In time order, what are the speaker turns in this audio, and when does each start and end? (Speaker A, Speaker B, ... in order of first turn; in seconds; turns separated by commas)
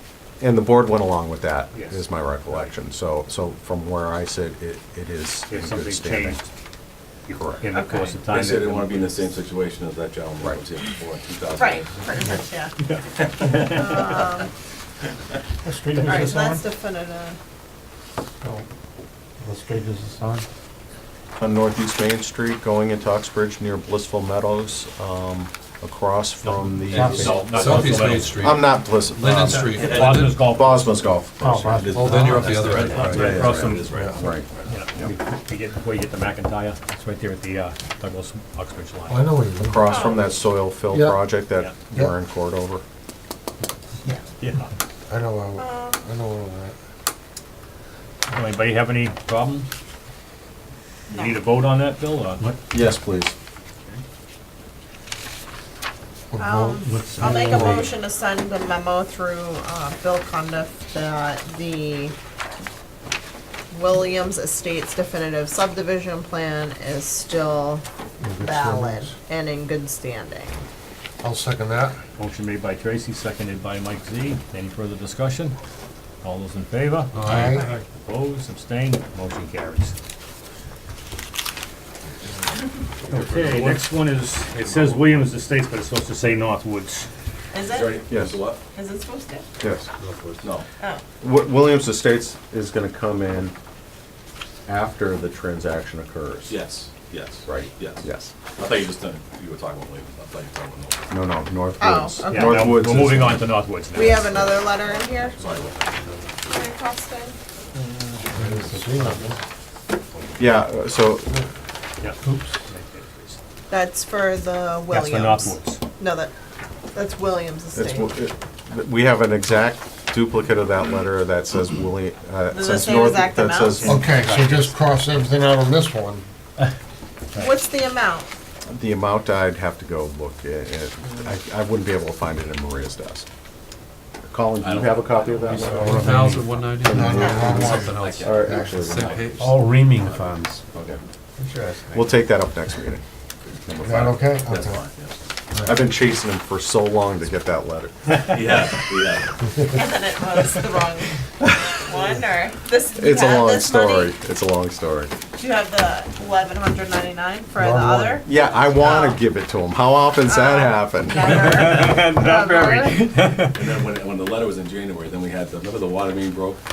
Speaker A: 0.4-6.4, Speaker B: 1.7-2.0, Speaker B: 5.5-6.5, Speaker B: 7.3-9.2, Speaker A: 7.3-7.6, Speaker C: 7.7-8.2, Speaker D: 8.2-12.1, Speaker C: 11.5-12.8, Speaker B: 12.8-14.3, Speaker D: 13.4-13.8, Speaker C: 13.6-14.5, Speaker E: 15.7-16.6, Speaker C: 16.0-17.4, Speaker F: 16.1-16.5, Speaker E: 19.4-20.4, Speaker A: 21.4-32.1, Speaker B: 26.4-28.6, Speaker E: 26.9-28.1, Speaker G: 27.5-30.5, Speaker B: 29.5-31.2, Speaker D: 29.7-30.6, Speaker E: 31.4-33.1, Speaker D: 31.7-34.7, Speaker G: 31.9-33.4, Speaker B: 32.5-39.4, Speaker A: 33.1-33.7, Speaker F: 33.9-34.2, Speaker A: 34.2-35.1, Speaker F: 39.1-39.9, Speaker A: 39.6-42.8, Speaker C: 39.9-40.3, Speaker F: 40.9-41.4, Speaker B: 44.4-44.7, Speaker F: 45.1-46.8, Speaker C: 45.6-46.1, Speaker B: 48.3-49.7, Speaker C: 51.1-51.4, Speaker B: 51.1-52.4, Speaker A: 52.7-53.3, Speaker F: 56.3-57.9, Speaker C: 56.4-62.1, Speaker E: 56.8-57.9, Speaker C: 63.7-67.8, Speaker F: 68.2-69.1, Speaker C: 68.4-70.6, Speaker F: 71.2-72.0, Speaker B: 72.2-75.6, Speaker B: 76.2-79.9, Speaker F: 77.1-77.7, Speaker C: 77.3-77.8, Speaker G: 77.3-77.8, Speaker B: 83.1-87.1, Speaker D: 83.1-83.8, Speaker D: 84.6-85.0, Speaker C: 87.5-88.2, Speaker D: 87.6-88.6, Speaker A: 88.1-88.4, Speaker C: 88.7-89.5, Speaker A: 89.6-89.9, Speaker E: 90.0-90.5, Speaker A: 91.2-93.5, Speaker A: 94.7-96.6, Speaker D: 96.5-101.2, Speaker A: 97.5-98.3, Speaker A: 101.1-103.5, Speaker C: 101.8-102.8, Speaker B: 102.3-104.6, Speaker C: 103.9-105.7, Speaker D: 105.0-106.2, Speaker C: 106.4-107.4, Speaker D: 107.8-108.2, Speaker F: 108.3-109.4, Speaker E: 108.5-109.2, Speaker A: 110.4-111.3, Speaker B: 112.0-113.4, Speaker C: 113.7-116.3, Speaker B: 114.9-115.8, Speaker C: 116.9-118.1, Speaker A: 117.8-124.0, Speaker C: 122.5-123.9, Speaker B: 123.7-124.8, Speaker F: 123.8-126.3, Speaker C: 127.4-128.3, Speaker A: 128.7-133.3, Speaker A: 134.3-136.2, Speaker D: 134.6-136.0, Speaker E: 135.5-136.5, Speaker G: 135.7-139.4, Speaker A: 136.8-138.7, Speaker F: 136.9-138.8, Speaker D: 137.5-141.0, Speaker E: 139.3-140.6, Speaker E: 141.4-142.2, Speaker A: 141.9-143.0, Speaker A: 143.6-144.3, Speaker F: 143.8-144.8, Speaker D: 144.4-145.3, Speaker A: 145.6-148.2, Speaker D: 148.2-149.4, Speaker C: 149.6-154.1, Speaker A: 153.0-155.1, Speaker C: 155.3-159.2, Speaker F: 157.6-158.2, Speaker A: 158.2-161.7, Speaker C: 160.2-163.1, Speaker B: 161.2-163.7, Speaker D: 163.4-166.6